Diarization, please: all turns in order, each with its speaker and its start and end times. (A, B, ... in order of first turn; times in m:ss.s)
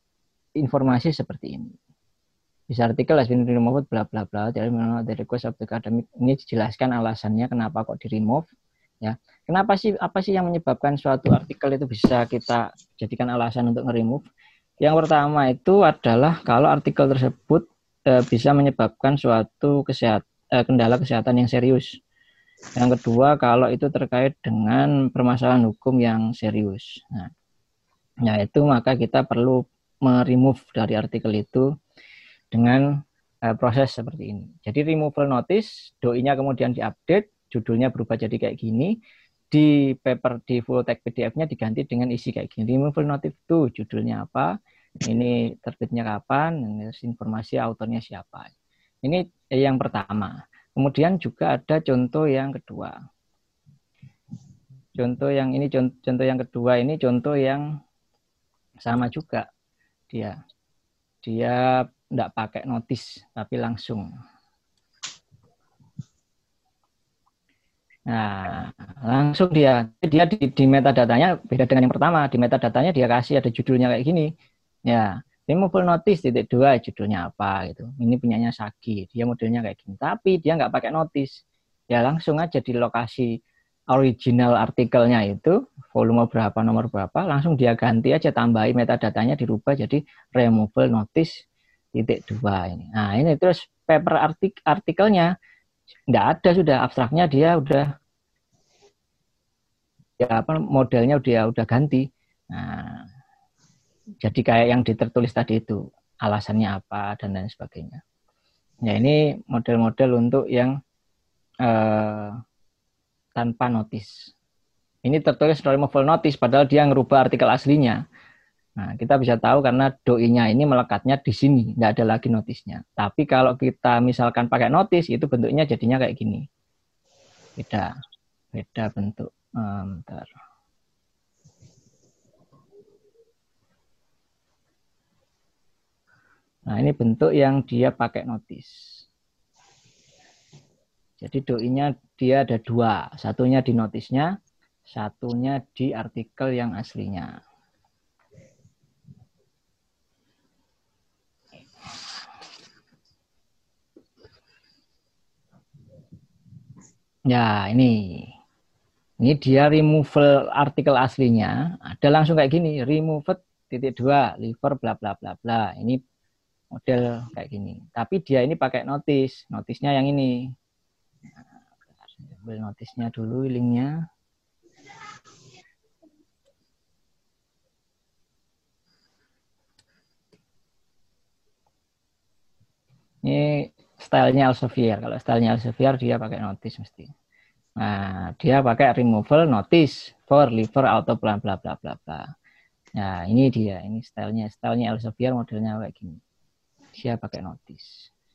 0:00.6-0:01.8 A
0:02.7-0:08.5 A
0:09.0-0:14.3 A
0:14.8-0:22.0 A
0:22.8-0:27.3 A
0:28.2-0:31.7 A
0:32.5-0:32.9 A
0:33.5-0:38.9 A
0:39.5-0:48.5 A
0:49.0-0:53.0 A
0:55.0-0:57.6 A
0:58.8-0:59.5 A
1:01.2-1:04.1 A
1:08.1-1:14.3 A
1:14.9-1:21.3 A
1:21.9-1:23.3 A
1:23.9-1:31.3 A
1:32.0-1:35.3 A
1:36.1-1:37.9 A
1:40.2-1:43.0 A
1:44.2-1:48.0 A
1:48.8-1:50.7 A
1:51.7-1:52.4 A
1:53.4-1:54.3 A
1:55.0-1:58.0 A
1:58.8-2:06.4 A
2:07.6-2:07.9 A
2:08.5-2:10.3 A
2:16.7-2:18.7 A
2:21.2-2:24.3 A
2:24.9-2:27.3 A
2:37.3-2:38.3 A
2:39.2-2:46.0 A
2:46.7-2:50.4 A
2:52.2-2:53.9 A
3:03.2-3:07.1 A
3:07.8-3:12.2 A
3:13.0-3:16.2 A
3:17.0-3:18.0 A